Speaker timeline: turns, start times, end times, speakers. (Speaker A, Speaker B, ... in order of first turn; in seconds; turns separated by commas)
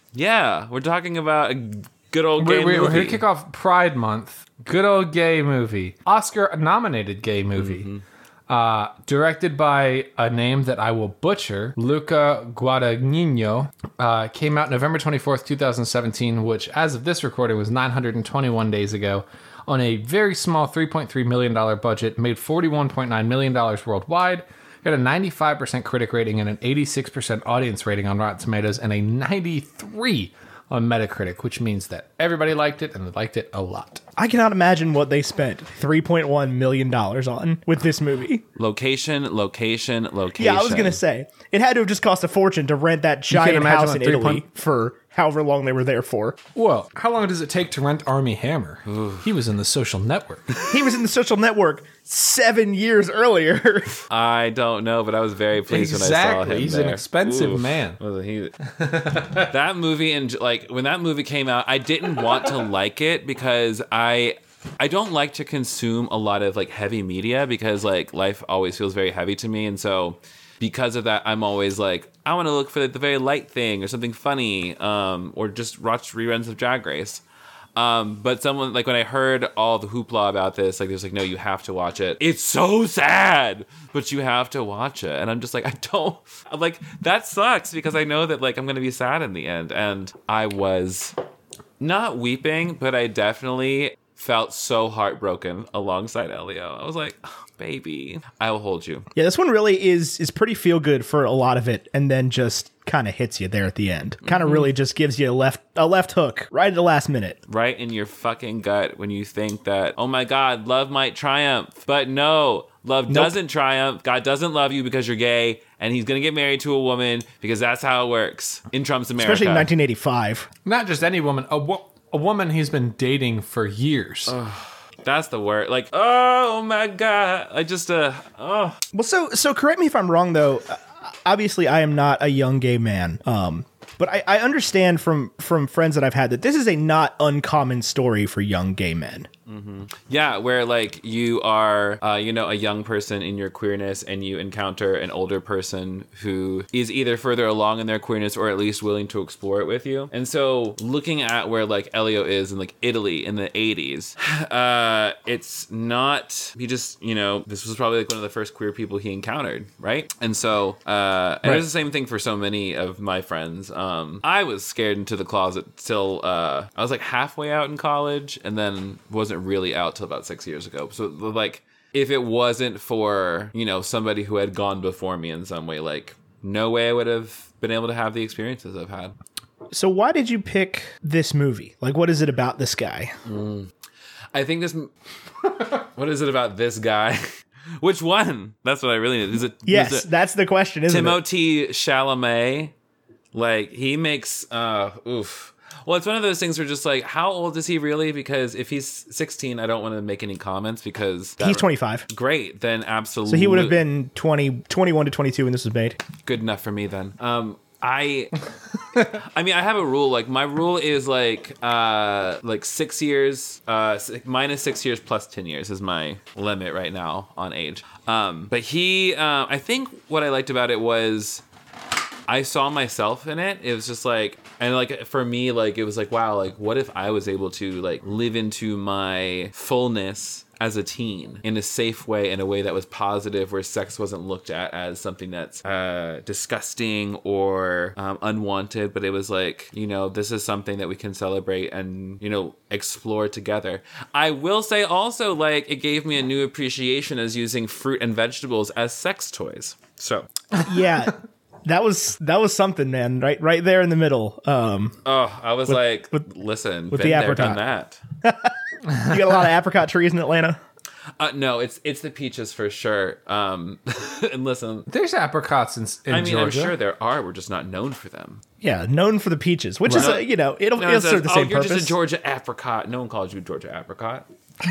Speaker A: 0.1-3.2, Speaker B: 2.4-7.9, Speaker A: 7.5-8.0, Speaker B: 8.5-34.0, Speaker C: 34.2-38.4, Speaker A: 38.5-41.0, Speaker C: 40.4-46.4, Speaker B: 43.3-44.4, Speaker B: 46.5-50.6, Speaker A: 48.9-49.2, Speaker C: 50.7-54.0, Speaker A: 54.1-58.5, Speaker B: 55.7-58.0, Speaker B: 58.6-59.5, Speaker A: 59.1-77.2, Speaker A: 77.8-91.1, Speaker A: 91.8-99.1, Speaker C: 99.2-107.4, Speaker A: 104.2-104.6, Speaker A: 107.5-119.7, Speaker C: 113.1-113.3, Speaker C: 119.2-120.5, Speaker B: 120.6-124.3, Speaker A: 124.3-128.8, Speaker C: 128.9-139.3, Speaker A: 139.5-179.2, Speaker C: 179.7-183.1, Speaker A: 183.2-183.7, Speaker A: 184.3-184.9, Speaker A: 185.5-190.1, Speaker C: 189.7-191.2, Speaker A: 190.9-192.7, Speaker A: 193.3-203.8, Speaker C: 201.4-202.1, Speaker C: 203.3-206.0, Speaker A: 206.2-208.4, Speaker A: 209.0-221.4, Speaker A: 222.3-250.4, Speaker C: 250.6-254.9, Speaker A: 255.0-258.0, Speaker C: 256.9-257.6, Speaker C: 258.2-260.6, Speaker A: 261.2-264.9, Speaker B: 264.9-266.7, Speaker A: 266.1-268.4, Speaker C: 268.6-271.9, Speaker A: 269.9-274.2